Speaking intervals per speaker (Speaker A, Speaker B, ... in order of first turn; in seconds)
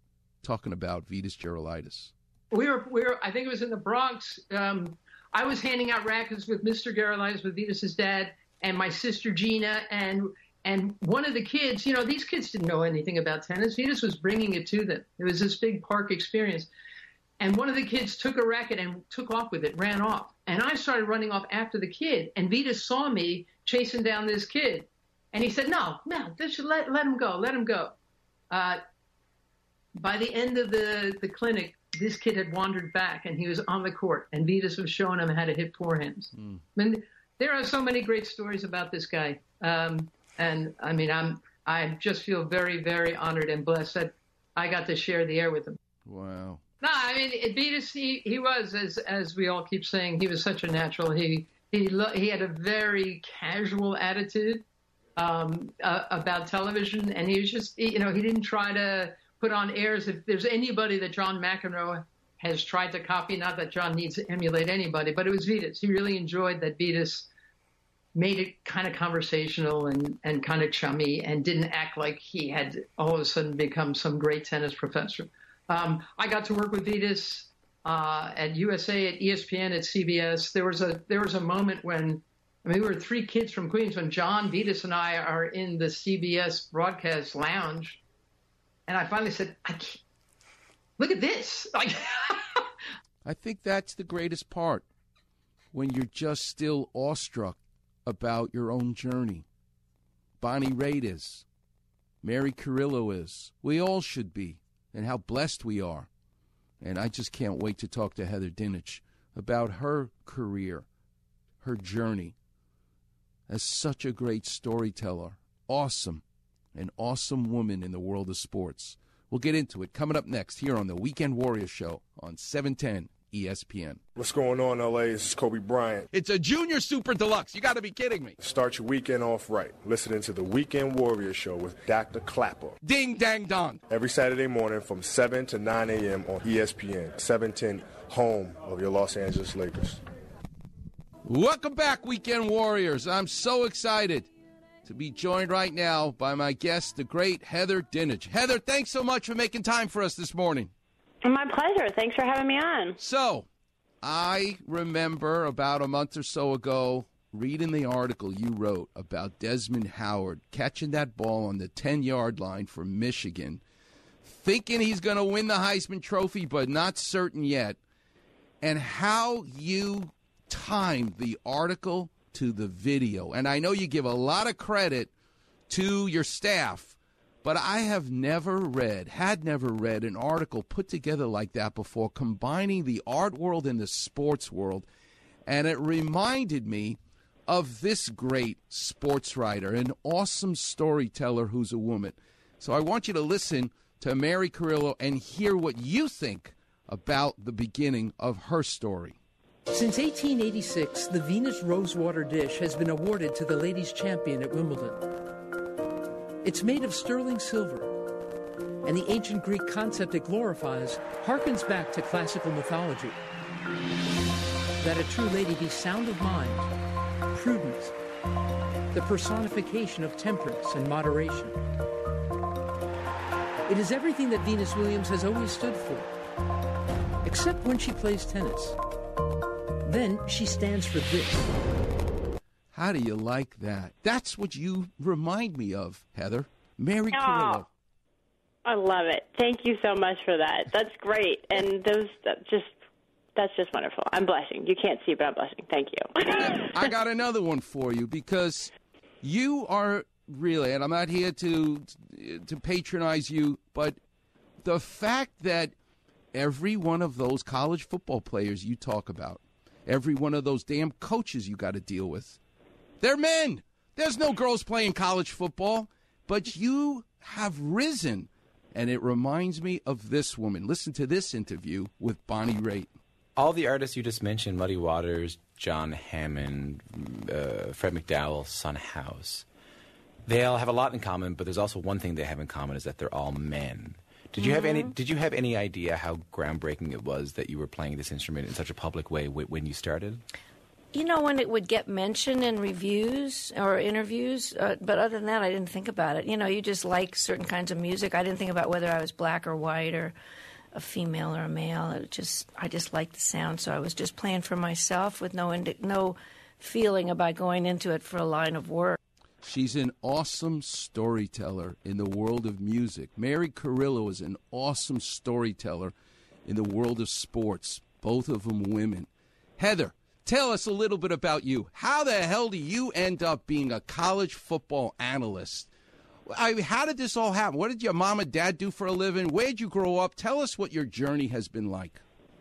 Speaker A: 0.4-2.1, 36.3-36.6, 46.0-46.6, 93.2-94.8, 95.7-99.4, 100.4-101.4, 102.2-106.1, 106.8-110.8, 111.6-112.3, 113.5-116.2, 116.7-124.0, 126.1-128.4, 132.8-133.8, 141.2-144.3, 144.8-150.7, 153.0-153.5, 154.0-163.6, 164.2-167.8, 168.6-175.1, 175.7-184.8, 185.5-199.2, 232.7-237.7, 246.4-248.7, 249.2-254.0, 254.6-255.7, 256.3-262.4, 263.0-272.9, 309.4-315.9, 316.4-325.7, 326.3-332.0
Speaker B: 2.5-16.7, 17.4-27.9, 28.5-28.8, 29.9-45.8, 46.8-54.6, 55.1-67.3, 68.1-88.0, 88.9-90.0, 91.0-92.7
Speaker C: 124.2-126.1, 128.4-132.8, 133.9-140.0
Speaker D: 151.2-153.0, 237.1-237.6, 238.6-242.7, 243.3-246.8
Speaker E: 199.7-205.1, 206.4-208.0, 208.8-213.2, 214.8-216.7, 217.3-217.9, 218.9-221.6, 223.7-226.1, 227.2-228.8, 229.8-231.5
Speaker F: 273.4-279.4, 280.2-290.2
Speaker G: 284.4-284.9, 290.9-300.1, 300.7-309.0